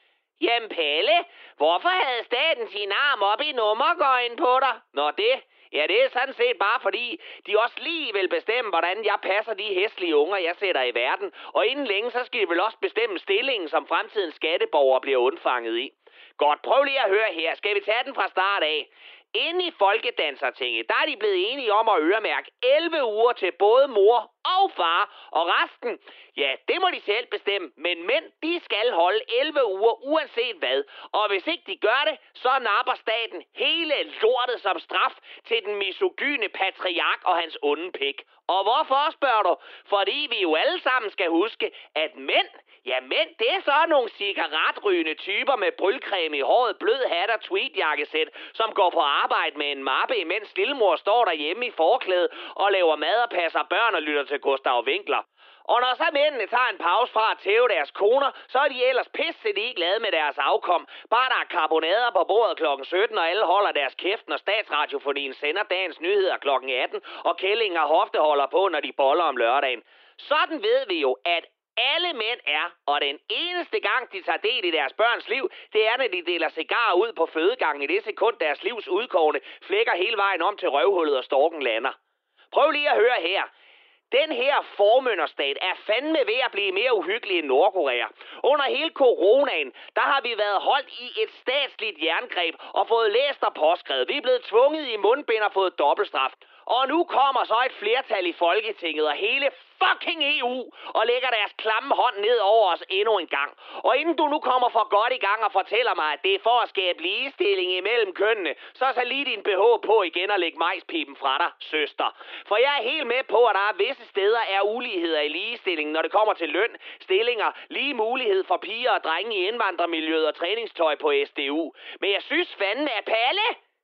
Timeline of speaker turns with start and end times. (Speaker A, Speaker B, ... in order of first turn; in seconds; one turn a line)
Speaker A: 0.4-82.0
Speaker A: 82.5-83.5
Speaker A: 84.1-123.6